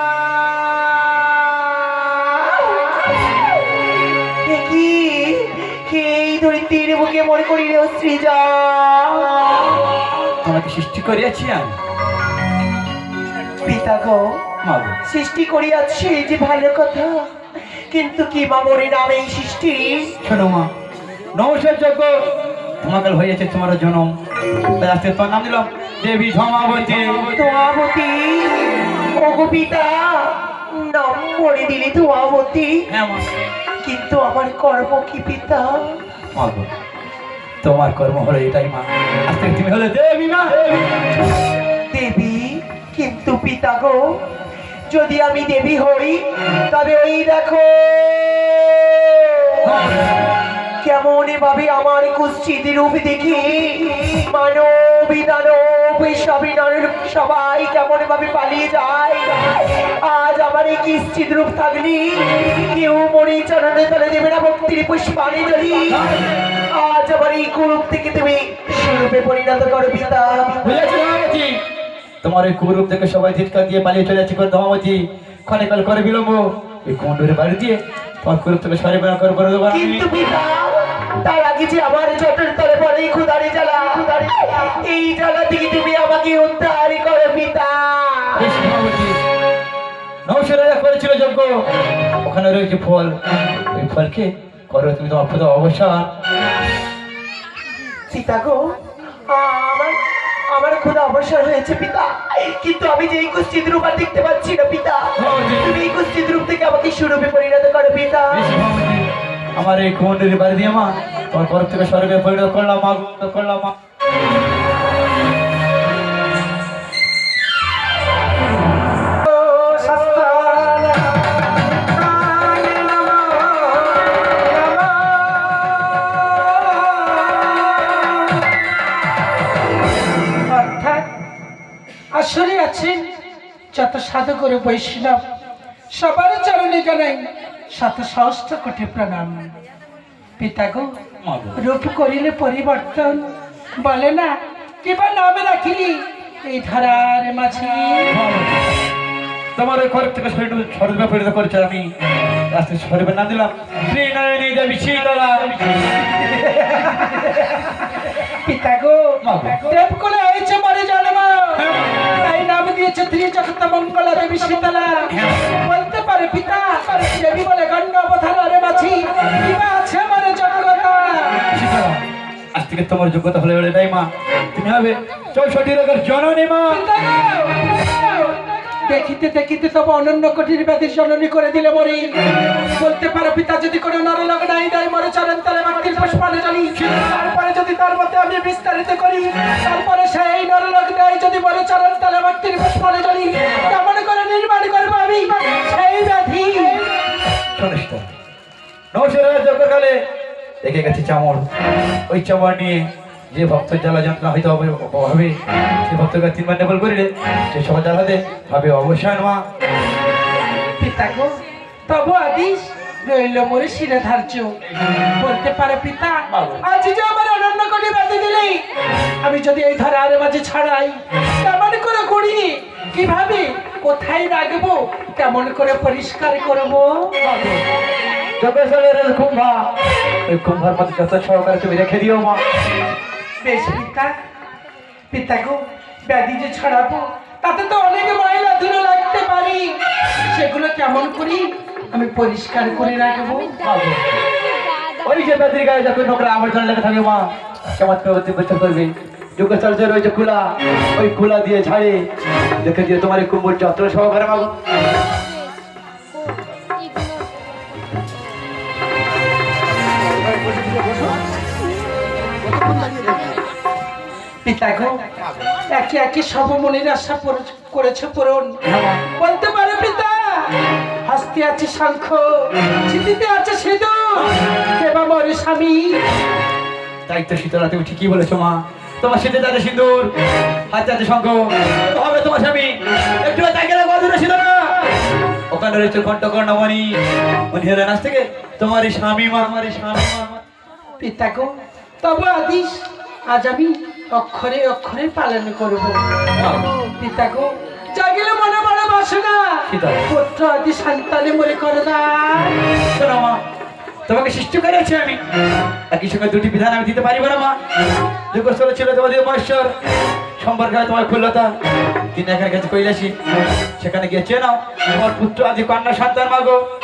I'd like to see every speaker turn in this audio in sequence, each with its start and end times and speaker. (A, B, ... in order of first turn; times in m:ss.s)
0:01.4-0:03.4 A
0:04.4-0:09.7 A
0:10.4-0:11.8 B
0:13.6-0:14.2 A
0:14.6-0:15.0 B
0:15.1-0:17.2 A
0:17.9-0:20.1 A
0:20.2-0:20.7 B
0:21.4-0:22.2 B
0:22.8-0:24.1 B
0:24.8-0:27.4 B
0:27.1-0:32.8 A
0:32.9-0:33.2 B
0:33.8-0:36.0 A
0:36.4-0:36.7 B
0:37.6-0:40.8 B
0:41.9-0:44.0 A
0:44.9-0:49.8 A
0:49.6-0:50.1 B
0:50.8-1:06.1 A
1:05.9-1:06.3 B
1:06.8-1:10.8 A
1:10.6-1:11.6 B
1:12.2-1:20.0 B
1:19.7-1:28.5 A
1:28.4-1:29.2 B
1:30.3-1:31.5 B
1:32.2-1:33.1 B
1:33.7-1:36.1 B
1:38.1-1:38.6 A
1:39.3-1:40.0 A
1:40.5-1:48.5 A
1:45.2-1:45.8 B
1:48.3-1:49.0 B
1:49.6-1:53.7 B
1:59.2-2:01.3 C
2:01.9-2:08.5 C
2:10.4-2:11.1 C
2:12.2-2:13.1 C
2:13.7-2:15.2 C
2:15.9-2:19.5 C
2:20.4-2:20.9 C
2:21.2-2:21.6 B
2:21.6-2:28.1 C
2:28.1-2:28.7 B
2:29.6-2:31.9 B
2:32.5-2:35.6 B
2:36.7-2:37.2 C
2:38.4-2:51.5 C
2:39.2-2:39.7 B
2:45.1-2:45.5 B
2:51.5-2:52.0 B
2:52.5-2:56.8 B
2:56.7-3:16.9 C
3:17.6-3:18.1 B
3:18.9-3:20.0 B
3:20.6-3:21.4 B
3:22.1-3:29.4 B
3:30.8-3:34.6 C
3:35.1-3:38.6 C
3:36.3-3:36.6 B
3:39.2-3:47.2 C
3:47.2-3:47.6 B
3:48.4-3:49.7 B
3:50.3-3:52.4 B
3:53.4-3:54.0 A
3:53.5-3:54.1 C
3:55.1-4:03.6 C
4:03.6-4:04.2 B
4:05.0-4:12.0 B
4:12.6-4:14.5 B
4:24.4-4:25.1 C
4:25.7-4:28.6 C
4:28.6-4:29.0 B
4:29.1-4:36.0 C
4:37.1-4:40.1 B
4:40.7-4:44.8 B
4:45.5-4:47.0 B
4:47.5-4:50.4 B
4:51.0-4:51.5 C
4:52.0-4:56.0 C
4:56.3-4:56.7 B
4:56.8-5:02.7 C
4:59.7-5:00.0 B
5:02.8-5:03.4 B
5:04.1-5:05.2 B
5:05.9-5:07.6 B
5:08.3-5:09.7 B
5:10.4-5:11.5 B
5:12.1-5:13.1 B
5:13.8-5:16.6 B